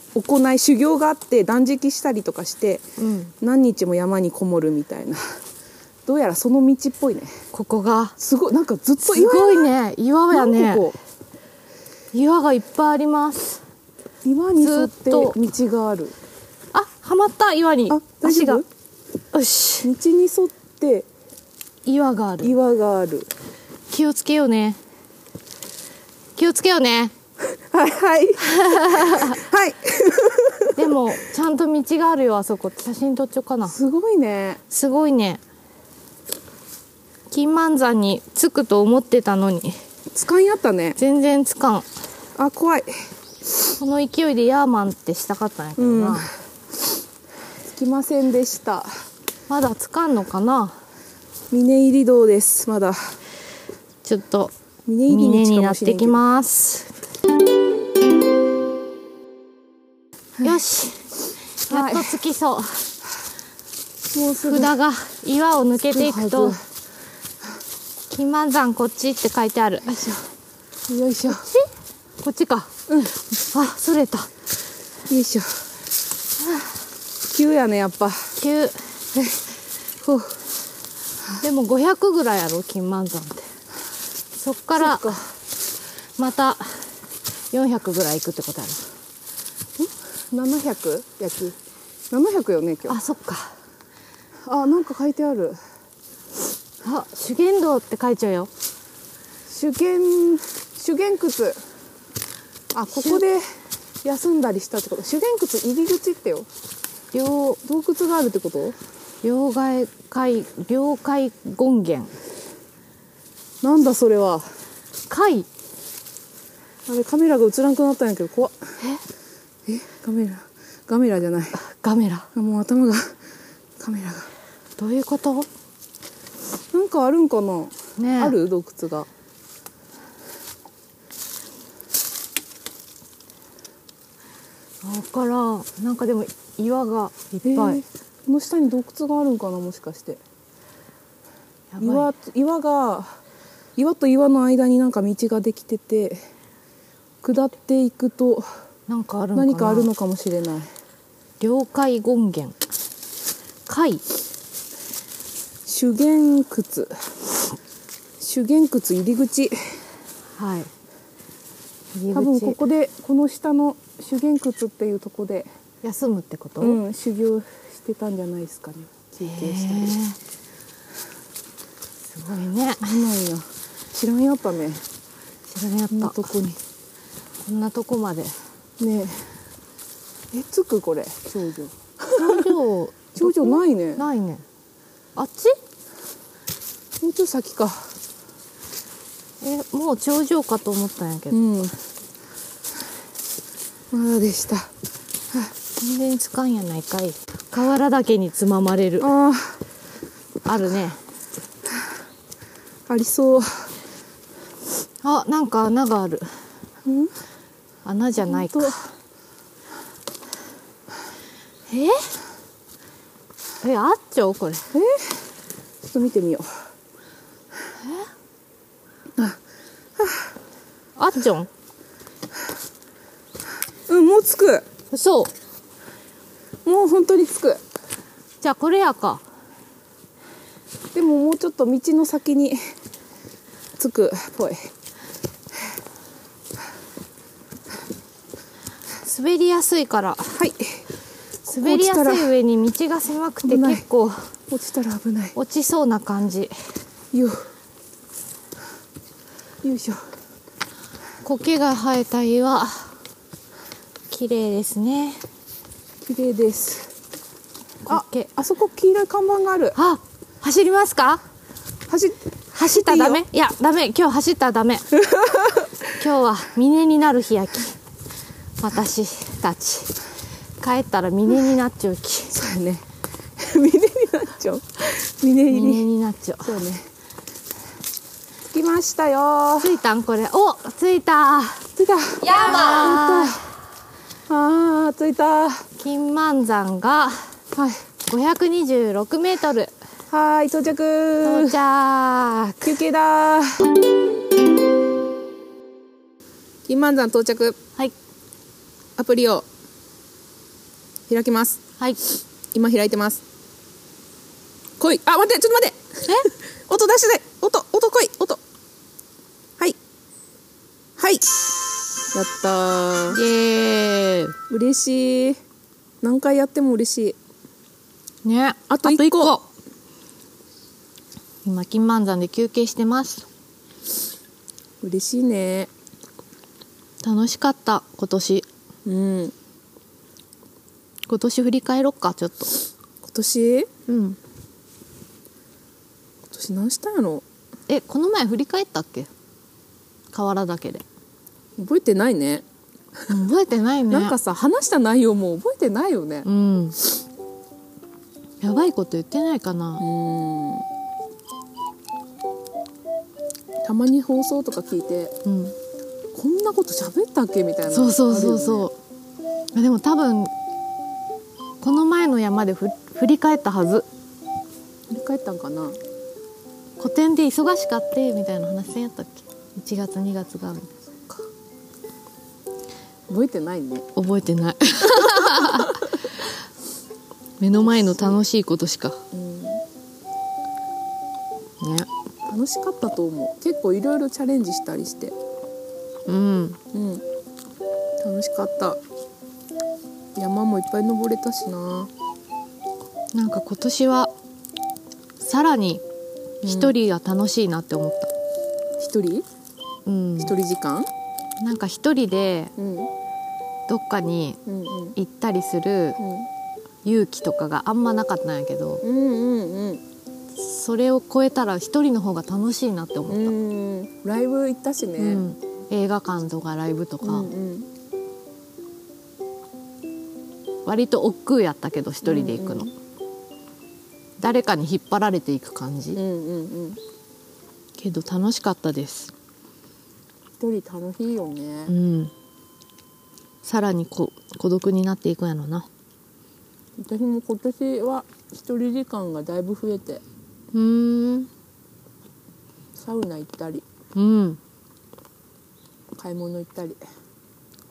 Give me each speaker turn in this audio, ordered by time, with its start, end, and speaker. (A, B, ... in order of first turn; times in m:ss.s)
0:00.1-0:02.8 A
0:03.0-0:03.3 B
0:03.4-0:05.2 A
0:06.0-0:07.3 A
0:07.5-0:08.2 B
0:08.2-0:09.7 A
0:09.0-0:10.9 B
0:10.3-0:11.0 A
0:12.1-0:13.6 B
0:14.2-0:16.1 A
0:14.6-0:15.4 B
0:16.7-0:18.6 B
0:17.9-0:18.6 A
0:19.3-0:19.9 B
0:19.8-0:21.1 A
0:21.8-0:22.5 B
0:22.4-0:23.3 A
0:23.9-0:24.8 B
0:26.4-0:27.1 B
0:27.5-0:30.8 A
0:28.4-0:29.4 B
0:30.7-0:33.7 B
0:33.7-0:34.6 A
0:34.7-0:35.4 B
0:37.3-0:39.8 B
0:40.1-0:41.0 A
0:41.0-0:41.9 B
0:42.4-0:42.9 A
0:43.8-0:46.3 B
0:45.8-0:46.3 A
0:47.6-0:48.9 A
0:49.5-0:50.8 B
0:51.5-0:53.2 A
0:54.0-0:54.5 B
0:54.8-0:56.2 A
0:55.1-0:56.9 B
1:00.4-1:01.0 B
1:01.7-1:02.8 B
1:01.7-1:02.2 A
1:04.1-1:04.7 A
1:04.4-1:06.6 B
1:05.9-1:06.6 A
1:08.1-1:10.2 B
1:09.9-1:10.2 A
1:10.9-1:11.5 A
1:11.3-1:11.7 B
1:12.2-1:14.3 B
1:15.1-1:15.6 A
1:17.3-1:18.4 A
1:18.4-1:18.8 B
1:20.0-1:20.3 A
1:21.4-1:23.5 B
1:24.4-1:25.1 B
1:24.8-1:25.3 A
1:26.2-1:26.9 B
1:27.5-1:28.8 B
1:29.8-1:31.6 A
1:32.1-1:33.0 A
1:32.9-1:33.5 B
1:34.4-1:35.6 A
1:36.8-1:38.5 B
1:39.5-1:41.6 A
1:42.7-1:43.4 A
1:44.0-1:46.5 A
1:47.1-1:47.6 B
1:47.6-1:48.8 A
1:49.2-1:52.1 B
1:53.6-1:54.4 A
1:55.1-1:55.5 B
1:56.9-1:58.7 A
1:59.6-2:01.6 A
2:01.6-2:02.3 B
2:02.3-2:03.2 A
2:03.8-2:04.3 A
2:04.8-2:05.5 B
2:06.7-2:09.1 A
2:08.0-2:08.4 B
2:14.8-2:17.8 B
2:17.4-2:20.2 A
2:21.7-2:22.1 B
2:21.8-2:23.2 A
2:23.8-2:26.2 A
2:27.2-2:28.4 A
2:28.9-2:29.9 B
2:29.3-2:30.7 A
2:31.4-2:32.6 B
2:33.6-2:34.0 B
2:35.6-2:36.9 A
2:38.2-2:39.7 A
2:40.4-2:40.7 B
2:42.0-2:42.6 B
2:42.1-2:45.5 A
2:45.8-2:46.8 B
2:46.6-2:50.0 A
2:49.2-2:50.2 B
2:52.1-2:52.9 B
2:52.8-2:54.8 A
2:55.5-2:56.3 B
2:55.9-2:56.6 A
2:57.4-2:58.3 B
2:58.8-2:59.3 A
3:00.3-3:02.5 A
3:02.1-3:04.4 B
3:03.2-3:04.0 A
3:05.2-3:05.6 B
3:07.0-3:07.9 A
3:09.4-3:11.5 B
3:11.3-3:11.7 A
3:13.9-3:14.7 A
3:15.8-3:19.1 B
3:19.0-3:19.6 A
3:20.4-3:21.0 B
3:22.9-3:23.7 A
3:25.0-3:26.3 B
3:26.8-3:27.1 A
3:27.8-3:28.8 B
3:28.2-3:28.8 A
3:31.7-3:32.1 B
3:33.6-3:34.6 B
3:34.7-3:35.2 A
3:35.8-3:36.5 A
3:40.0-3:40.3 A
3:41.0-3:41.5 B
3:43.9-3:44.6 A
3:44.9-3:45.3 B
3:46.6-3:47.6 A
3:48.4-3:49.2 B
3:50.9-3:52.6 A
3:53.8-3:54.7 A
3:59.0-4:00.4 B
4:00.3-4:00.8 A
4:01.5-4:04.2 B
4:01.5-4:02.3 A
4:03.4-4:03.8 A
4:04.5-4:05.3 A
4:05.3-4:06.5 B
4:07.1-4:07.4 A
4:09.6-4:10.0 A
4:11.2-4:12.9 B
4:14.1-4:15.2 B
4:16.0-4:16.9 A
4:17.8-4:18.3 B
4:17.9-4:19.8 A
4:19.7-4:21.2 B
4:21.9-4:23.2 A
4:22.5-4:24.8 B
4:24.9-4:25.7 A
4:25.9-4:27.7 B
4:28.6-4:30.0 B
4:30.6-4:32.3 B
4:32.3-4:32.8 A
4:33.4-4:35.9 A
4:35.5-4:36.6 B
4:36.4-4:36.8 A
4:38.5-4:39.8 A
4:39.6-4:41.7 B
4:41.8-4:43.4 A
4:42.2-4:43.4 B
4:44.3-4:45.6 A
4:45.8-4:47.2 B
4:47.5-4:47.8 A
4:48.1-4:49.7 B
4:50.1-4:51.6 A
4:51.2-4:52.7 B
4:52.6-4:53.6 A
4:56.7-4:57.6 A
4:59.0-4:59.4 A
5:01.1-5:01.6 A
5:02.5-5:03.2 A
5:04.8-5:08.4 A
5:11.0-5:13.2 A
5:13.1-5:14.4 B
5:14.5-5:15.4 A
5:16.0-5:17.2 A
5:18.2-5:19.4 B
5:18.7-5:19.3 A
5:21.4-5:23.3 B
5:24.8-5:25.7 A
5:27.0-5:28.4 B
5:28.8-5:29.3 A
5:31.1-5:32.5 B
5:33.0-5:33.7 A
5:33.9-5:34.2 B
5:36.3-5:37.2 A
5:37.7-5:39.1 B
5:40.1-5:40.8 B
5:41.6-5:42.4 A
5:43.1-5:44.2 B
5:43.9-5:46.3 A
5:46.2-5:46.8 B
5:48.4-5:49.8 B
5:49.8-5:50.6 A
5:53.6-5:55.1 A
5:55.2-5:55.5 B
5:56.1-5:58.7 A
5:57.7-5:58.8 B
5:59.5-6:00.3 B
6:01.6-6:03.9 B
6:04.9-6:05.8 A
6:06.8-6:10.8 B
6:13.1-6:13.9 A
6:14.0-6:15.9 B
6:17.4-6:19.0 B
6:17.7-6:18.1 A
6:19.1-6:19.6 A
6:21.6-6:21.9 B
6:22.3-6:25.2 A
6:26.1-6:26.6 B
6:26.7-6:27.0 A
6:28.0-6:28.8 A
6:30.2-6:31.9 A
6:33.1-6:34.1 B
6:35.2-6:35.8 B
6:36.4-6:38.1 B
6:36.4-6:36.8 A
6:38.8-6:39.2 A
6:39.8-6:40.3 B
6:40.2-6:40.9 A
6:41.4-6:42.5 B
6:42.6-6:42.9 A
6:43.7-6:44.4 B
6:44.4-6:45.0 A
6:45.0-6:46.0 B
6:46.0-6:46.3 A
6:46.8-6:48.8 B
6:48.8-6:49.8 A
6:50.4-6:53.4 B
6:53.1-6:55.2 A
6:55.0-6:57.3 B
6:57.0-6:57.7 A
7:00.6-7:02.7 B
7:02.0-7:02.7 A
7:04.2-7:06.0 B
7:05.9-7:06.8 A
7:07.8-7:09.1 B
7:10.4-7:11.7 A
7:11.7-7:12.1 B
7:13.4-7:15.7 B
7:16.8-7:20.0 A
7:20.5-7:21.3 B
7:22.8-7:23.6 A
7:23.9-7:24.4 B
7:25.9-7:26.8 A